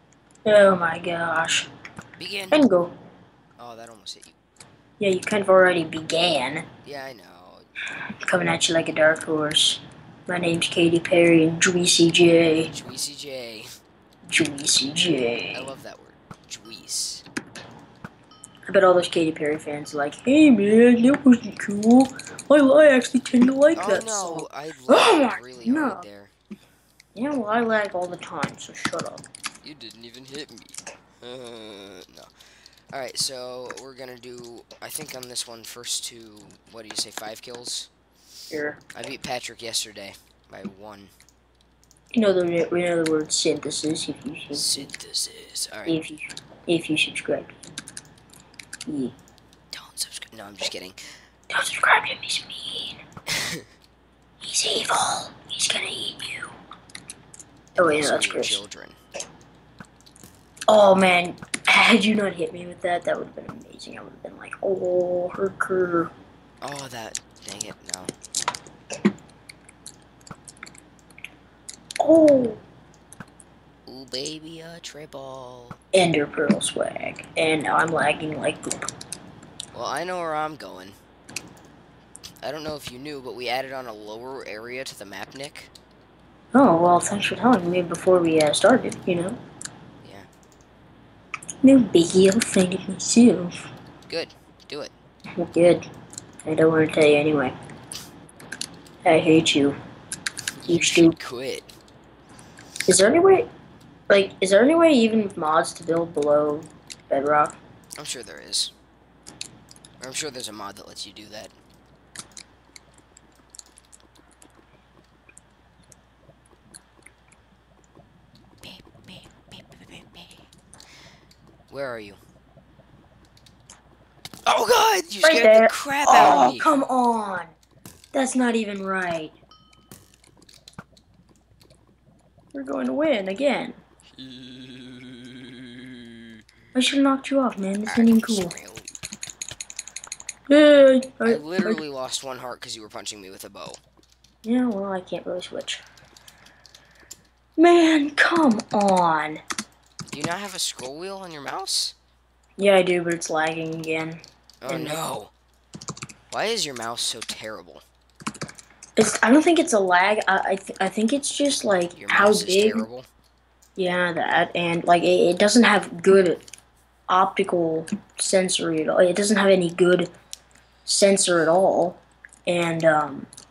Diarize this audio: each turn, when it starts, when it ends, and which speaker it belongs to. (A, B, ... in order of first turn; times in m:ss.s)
0:00.4-0:01.7 A
0:02.2-0:02.7 B
0:02.5-0:02.9 A
0:03.6-0:04.4 B
0:05.0-0:06.6 A
0:06.8-0:07.7 B
0:08.2-0:12.7 A
0:12.6-0:13.7 B
0:14.3-0:15.7 A
0:15.5-0:17.2 B
0:18.7-0:26.0 A
0:23.7-0:26.3 B
0:27.1-0:29.2 A
0:29.6-0:32.3 B
0:32.9-0:37.9 B
0:38.5-0:38.8 A
0:38.9-0:41.1 B
0:42.1-0:44.7 A
0:44.5-0:45.9 B
0:45.8-0:47.6 A
0:48.9-0:49.1 A
0:49.7-0:51.0 B
0:51.5-0:53.0 A
0:54.4-0:56.5 A
0:57.7-0:59.0 B
0:57.8-0:58.6 A
1:00.7-1:06.1 A
1:06.6-1:08.1 B
1:12.0-1:12.6 A
1:13.9-1:15.8 B
1:15.9-1:18.9 A
1:19.7-1:21.0 B
1:22.4-1:25.7 B
1:26.5-1:29.4 A
1:30.0-1:30.3 B
1:31.6-1:33.5 A
1:34.1-1:34.9 B
1:35.4-1:35.8 A
1:36.4-1:37.5 A
1:39.0-1:39.8 A
1:40.6-1:41.7 B
1:40.7-1:41.1 A
1:42.8-1:43.5 A
1:44.1-1:47.6 A
1:48.0-1:48.7 B
1:50.0-1:51.5 B
1:58.6-2:00.4 B
2:01.7-2:02.2 B
2:04.4-2:06.7 B
2:05.2-2:07.5 A
2:08.1-2:09.4 A
2:12.5-2:13.8 A
2:14.1-2:16.4 B
2:16.7-2:18.5 A
2:17.9-2:18.9 B
2:20.5-2:21.8 A
2:21.2-2:23.8 B
2:24.4-2:25.8 A
2:27.6-2:29.4 A
2:30.0-2:31.9 B
2:32.6-2:35.0 A
2:34.6-2:35.3 B
2:36.3-2:37.8 B
2:39.0-2:42.8 A
2:41.9-2:43.1 B
2:43.8-2:46.4 A
2:47.1-2:50.1 A
2:50.8-2:53.3 A